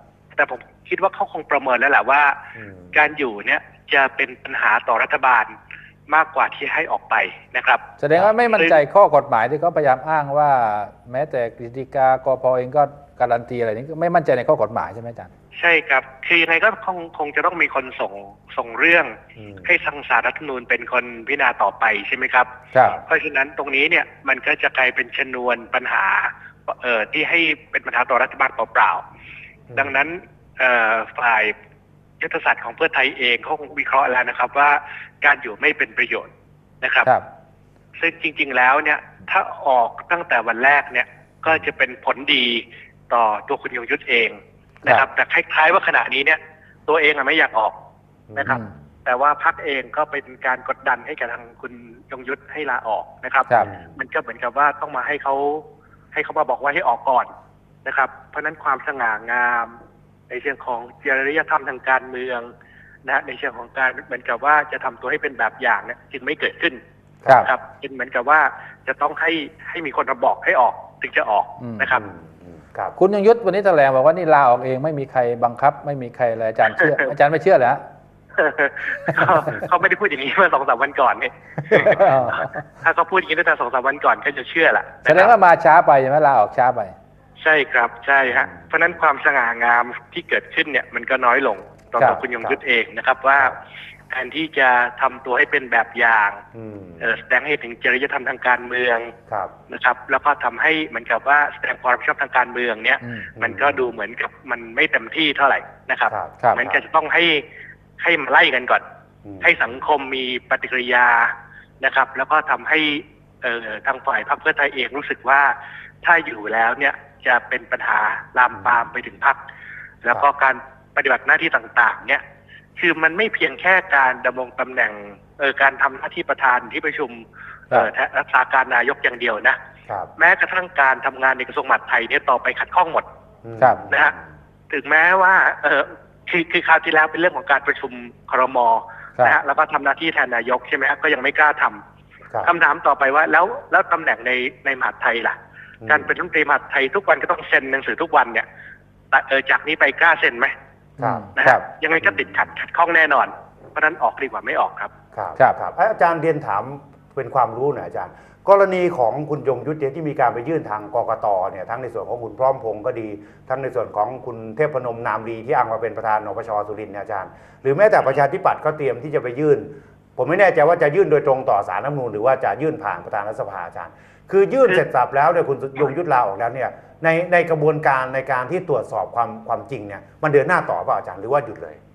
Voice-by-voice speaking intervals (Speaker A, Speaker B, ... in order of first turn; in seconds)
Speaker A: 0.3-2.4, 2.9-5.5, 6.1-7.8, 15.6-22.5, 23.1-29.0, 29.7-31.5, 32.2-36.3, 36.8-37.1, 38.0-47.7, 48.3-57.3, 57.8-59.8, 60.3-62.5, 63.0-66.8, 67.3-72.0, 78.4-85.3, 87.4-93.5, 94.1-96.4, 97.0-99.1, 99.7-107.4, 108.0-108.8, 109.4-119.4, 120.0-122.2, 122.8-129.6, 130.2-133.1, 133.9-134.1, 134.7-141.8, 142.4-148.4, 149.1-150.5, 151.4-154.9
Speaker B: 2.5-3.0, 19.4-19.7, 29.7-30.0, 48.3-48.6, 53.6-54.0, 71.9-73.0, 81.8-82.0, 88.3-88.7, 96.5-97.1, 99.3-99.5, 103.4-103.9, 106.1-106.8, 109.2-109.7, 118.5-118.9, 133.4-134.1, 145.8-146.1, 151.0-151.3, 152.0-152.5, 155.1-181.8
Speaker C: 8.0-15.3, 22.7-23.0, 71.6-71.9, 73.0-77.8, 79.1-79.6, 81.7-82.6, 85.0-86.9, 103.0-103.3, 151.0-151.6